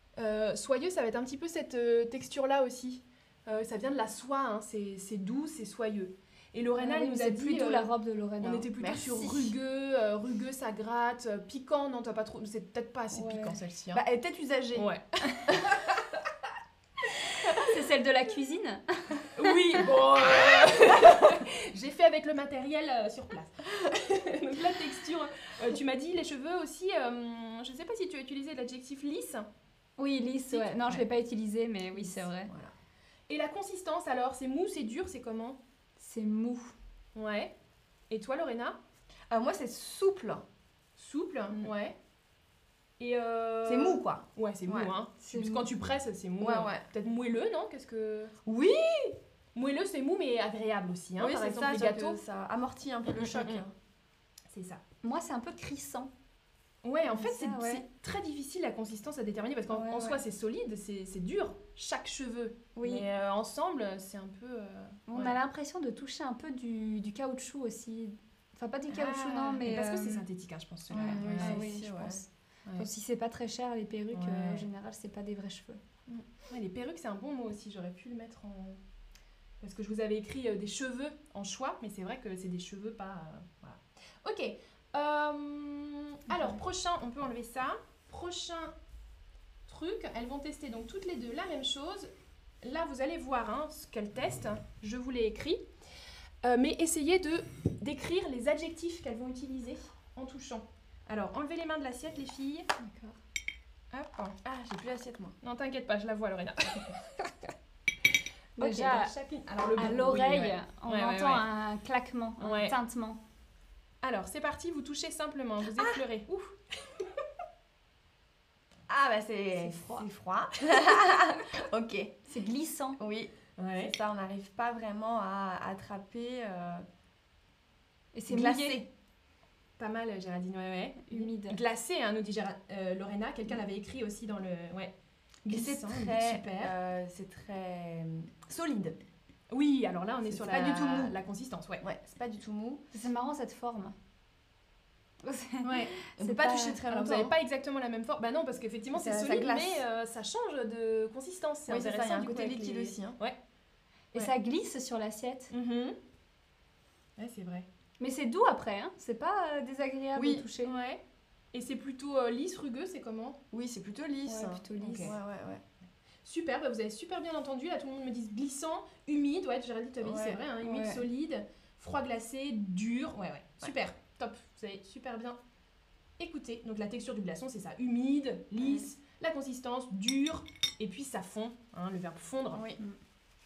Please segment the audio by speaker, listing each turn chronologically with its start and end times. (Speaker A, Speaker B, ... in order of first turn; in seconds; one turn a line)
Speaker A: 0.2-7.9
Speaker B: 6.8-8.7
Speaker A: 8.4-14.0
Speaker C: 8.7-9.5
Speaker B: 13.1-13.6
Speaker C: 13.9-14.9
Speaker A: 14.8-16.0
Speaker C: 15.5-15.9
Speaker B: 17.6-19.8
Speaker A: 19.4-29.5
Speaker B: 30.0-32.5
Speaker A: 30.5-31.1
Speaker A: 31.9-32.7
Speaker A: 33.3-35.6
Speaker B: 36.0-36.7
Speaker A: 37.1-37.5
Speaker A: 38.1-38.8
Speaker C: 39.3-40.4
Speaker A: 41.0-42.0
Speaker A: 43.0-48.3
Speaker C: 43.6-45.4
Speaker B: 45.3-45.6
Speaker C: 46.4-46.9
Speaker C: 48.5-49.2
Speaker A: 49.5-52.2
Speaker C: 51.2-53.7
Speaker A: 53.1-53.6
Speaker A: 54.5-54.8
Speaker B: 55.0-56.1
Speaker A: 56.8-65.4
Speaker B: 57.1-57.9
Speaker B: 59.7-60.2
Speaker B: 62.8-63.1
Speaker B: 65.1-70.2
Speaker A: 68.9-71.6
Speaker C: 70.9-72.2
Speaker B: 71.4-75.8
Speaker A: 74.1-74.7
Speaker A: 76.1-78.8
Speaker A: 79.6-88.7
Speaker A: 89.7-92.1
Speaker A: 92.6-95.6
Speaker A: 96.4-102.7
Speaker B: 102.8-103.2
Speaker A: 103.9-104.4
Speaker C: 104.5-105.3
Speaker A: 105.4-107.3
Speaker B: 108.6-109.1
Speaker A: 108.6-111.5
Speaker B: 109.8-113.2
Speaker A: 112.4-112.8
Speaker A: 114.0-117.0
Speaker C: 118.9-122.3
Speaker B: 119.5-120.1
Speaker B: 122.3-123.0
Speaker C: 123.0-126.8
Speaker A: 123.6-124.0
Speaker B: 128.1-128.8
Speaker C: 128.3-128.9
Speaker A: 129.8-134.9
Speaker B: 131.1-131.6
Speaker A: 135.4-136.7
Speaker C: 135.5-139.0
Speaker A: 139.5-141.8
Speaker C: 140.2-141.2
Speaker C: 141.8-142.8
Speaker B: 142.9-143.9
Speaker B: 145.2-146.8
Speaker A: 145.6-145.9
Speaker C: 146.2-147.3
Speaker A: 146.9-153.4
Speaker C: 148.9-149.8
Speaker C: 151.7-153.2
Speaker B: 154.1-155.5
Speaker A: 155.5-156.0
Speaker A: 157.2-157.7
Speaker B: 158.0-160.7
Speaker C: 160.2-160.5
Speaker A: 160.6-161.0
Speaker A: 161.5-163.4
Speaker C: 163.5-165.6
Speaker B: 164.3-165.1
Speaker A: 164.8-165.1
Speaker A: 166.2-175.4
Speaker C: 170.0-170.4
Speaker B: 170.6-171.0
Speaker A: 176.2-182.6
Speaker C: 178.6-178.9
Speaker C: 182.5-182.8